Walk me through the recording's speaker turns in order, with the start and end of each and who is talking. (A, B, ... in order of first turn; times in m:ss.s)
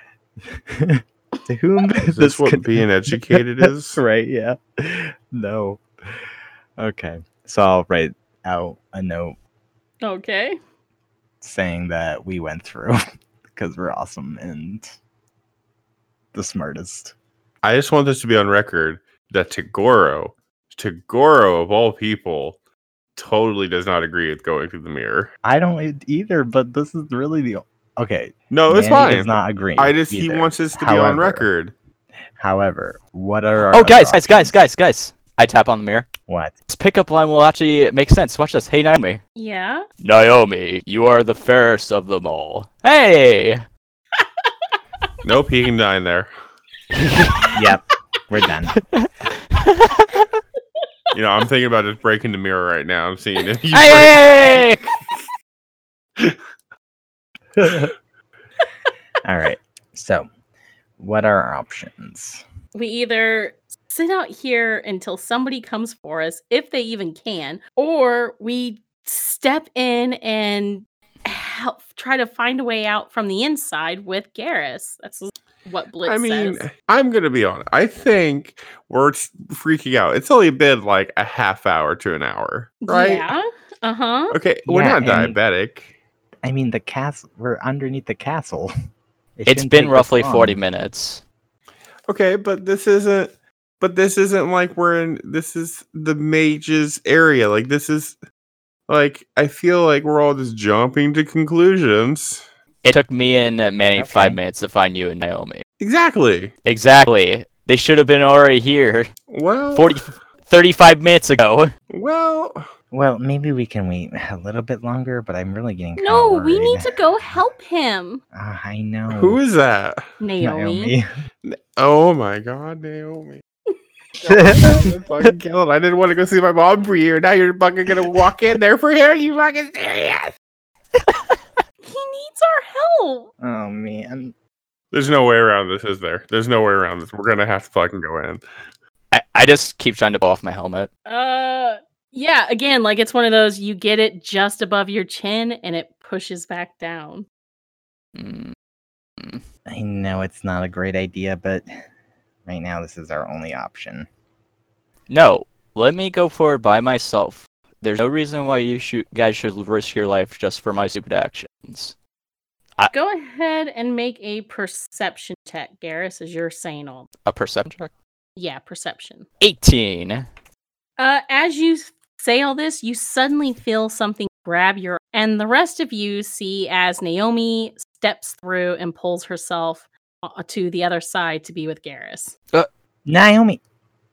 0:00.5-0:05.8 A
0:02.0-0:04.0 B
0:06.8-0:09.4 A
0:10.0-0:10.6 C
0:11.4-0:13.0 A
0:13.5-0:14.9 A
0:16.3-0:17.1 A
0:17.6-0:22.6 B
0:23.2-0:25.3 B
0:25.4-0:31.5 A
0:28.5-0:31.7 B
0:32.4-0:34.6 A
0:33.7-0:36.1 D
0:36.3-0:36.5 A
0:36.7-0:39.2 D
0:39.4-0:39.8 C
0:40.0-0:43.6 D
0:44.2-0:45.1 C
0:45.2-0:46.3 B
0:46.9-0:47.6 D
0:47.5-0:48.8 A
0:48.8-0:50.3 D
0:51.1-0:54.6 B
0:53.7-0:54.8 D
0:57.6-0:57.9 A
0:59.2-1:00.3 A
1:01.0-1:02.4 A
1:02.8-1:16.7 C
1:16.0-1:23.3 B
1:22.8-1:24.4 C
1:24.3-1:25.9 B
1:24.7-1:25.4 A
1:26.4-1:28.7 A
1:29.4-1:30.6 A
1:29.5-1:31.2 D
1:32.1-1:38.2 B
1:38.9-1:42.4 B
1:42.8-1:45.6 D
1:44.0-1:44.4 A
1:45.8-1:46.5 B
1:46.6-1:49.1 D
1:49.3-1:50.0 B
1:49.8-1:51.7 D
1:51.9-1:52.7 B
1:52.9-1:57.0 A
1:56.0-1:58.2 C
1:58.3-1:59.4 A
1:59.1-2:00.1 B
2:00.2-2:01.0 C
2:00.4-2:01.1 A
2:01.4-2:03.4 B
2:04.2-2:10.3 B
2:04.2-2:04.9 A
2:11.8-2:13.3 C
2:13.4-2:14.3 A
2:14.9-2:18.4 B
2:19.1-2:20.9 D
2:21.1-2:27.3 C
2:28.2-2:28.6 D
2:29.2-2:29.4 D
2:29.7-2:31.7 A
2:32.5-2:34.1 A
2:35.1-2:42.0 D
2:42.9-2:47.1 C
2:47.2-2:47.9 D
2:48.4-2:49.3 C
2:49.4-2:50.3 D
2:51.0-3:02.4 C
3:03.1-3:03.6 A